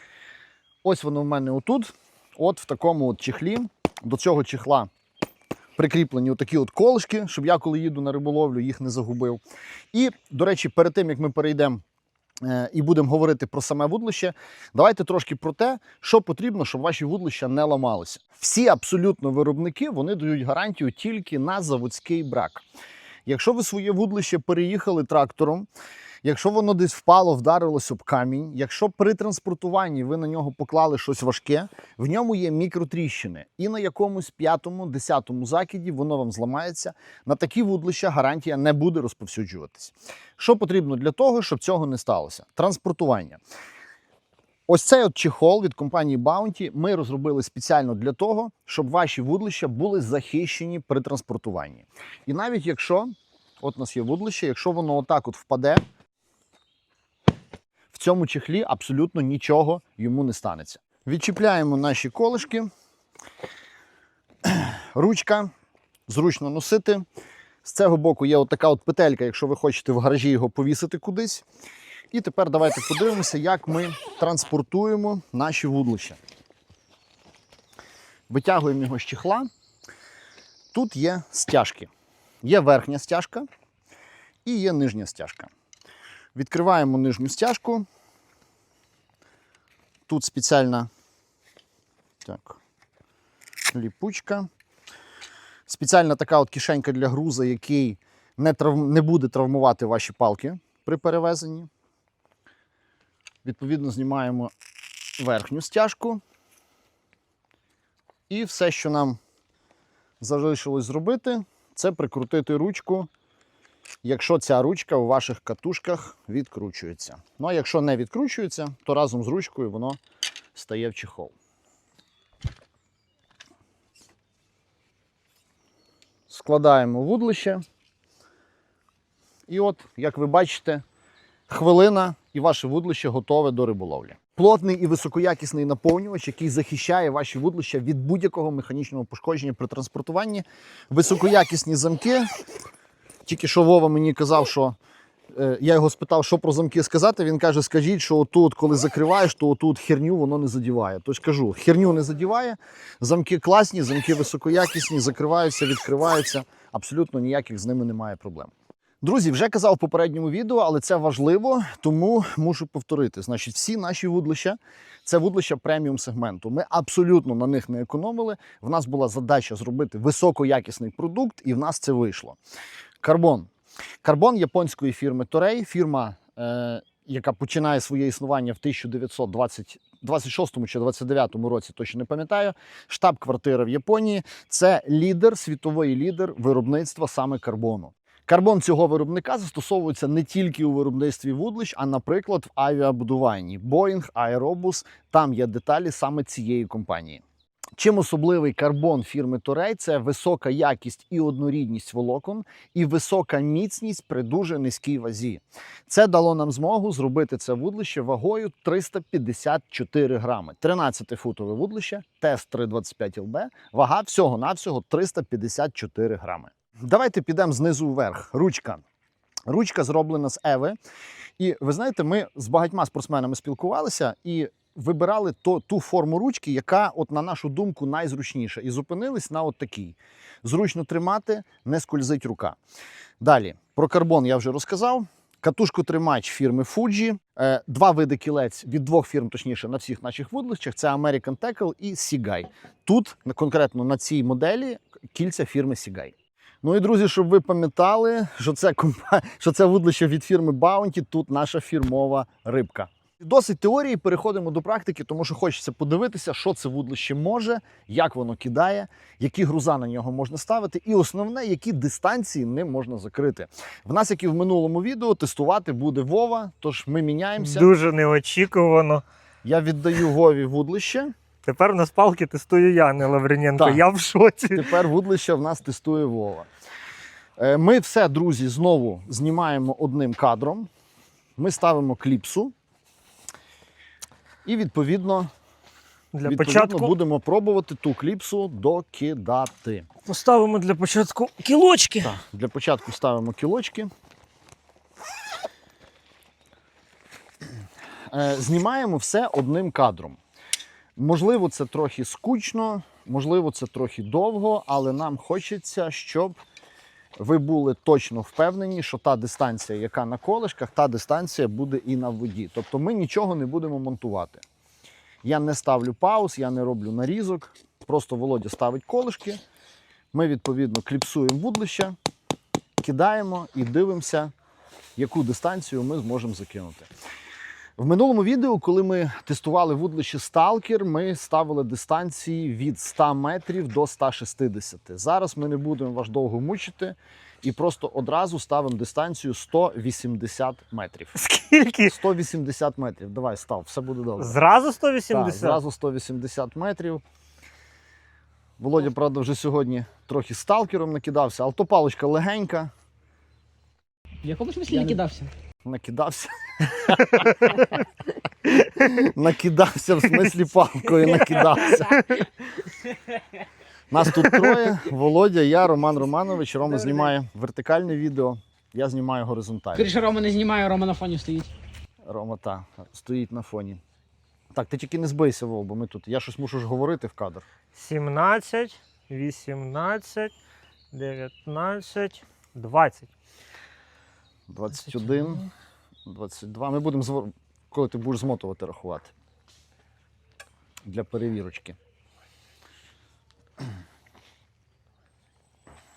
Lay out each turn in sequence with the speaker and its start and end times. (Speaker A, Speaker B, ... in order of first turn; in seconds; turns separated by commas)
Speaker A: 0.8-4.9, Speaker A: 5.8-9.4, Speaker A: 9.9-11.8, Speaker A: 12.4-22.6, Speaker A: 23.3-25.7, Speaker A: 26.2-43.4, Speaker A: 44.7-55.8, Speaker A: 57.9-62.7, Speaker A: 64.4-65.5, Speaker A: 66.1-67.0, Speaker A: 67.6-71.5, Speaker A: 72.1-76.2, Speaker A: 78.3-79.5, Speaker A: 80.7-81.9, Speaker A: 82.4-83.5, Speaker A: 84.5-85.5, Speaker A: 86.3-87.9, Speaker A: 90.1-90.9, Speaker A: 92.2-92.6, Speaker A: 93.7-94.5, Speaker A: 95.7-101.7, Speaker A: 103.4-104.5, Speaker A: 105.2-106.2, Speaker A: 108.3-109.2, Speaker A: 110.2-113.1, Speaker A: 114.0-120.0, Speaker A: 120.5-121.3, Speaker A: 126.3-127.6, Speaker A: 129.5-130.8, Speaker A: 131.5-142.3, Speaker A: 143.3-144.8, Speaker A: 145.3-172.4, Speaker A: 173.0-173.5, Speaker A: 174.0-197.2, Speaker A: 197.8-218.8, Speaker A: 219.5-220.8, Speaker A: 221.4-232.6, Speaker A: 233.2-267.7, Speaker B: 267.4-269.0, Speaker A: 269.4-271.1, Speaker B: 271.4-274.7, Speaker A: 273.6-273.8, Speaker A: 274.5-276.5, Speaker A: 277.4-280.7, Speaker A: 281.4-282.5, Speaker A: 284.4-285.3, Speaker B: 286.1-286.9, Speaker A: 286.2-289.9, Speaker B: 290.1-292.1, Speaker A: 292.0-293.9, Speaker A: 298.1-300.2, Speaker A: 301.0-306.4, Speaker A: 307.2-314.4, Speaker A: 315.2-319.4, Speaker A: 320.1-322.0, Speaker A: 322.8-324.3, Speaker A: 325.0-326.9, Speaker A: 327.8-341.1, Speaker B: 341.2-342.0, Speaker A: 341.9-344.4, Speaker B: 344.2-345.6, Speaker A: 345.1-347.0, Speaker A: 348.6-352.7, Speaker C: 354.2-355.3, Speaker A: 354.7-355.0, Speaker A: 355.6-357.8, Speaker B: 357.2-357.6, Speaker A: 358.6-362.0, Speaker C: 361.8-362.2, Speaker B: 361.8-362.2, Speaker A: 363.9-369.9, Speaker B: 364.2-364.5, Speaker C: 366.6-367.1, Speaker C: 369.7-371.5, Speaker A: 372.1-373.8, Speaker A: 374.6-377.4, Speaker B: 377.7-380.3, Speaker B: 380.9-383.1, Speaker A: 384.5-385.5, Speaker B: 384.8-385.5, Speaker A: 386.1-389.1, Speaker A: 390.8-391.8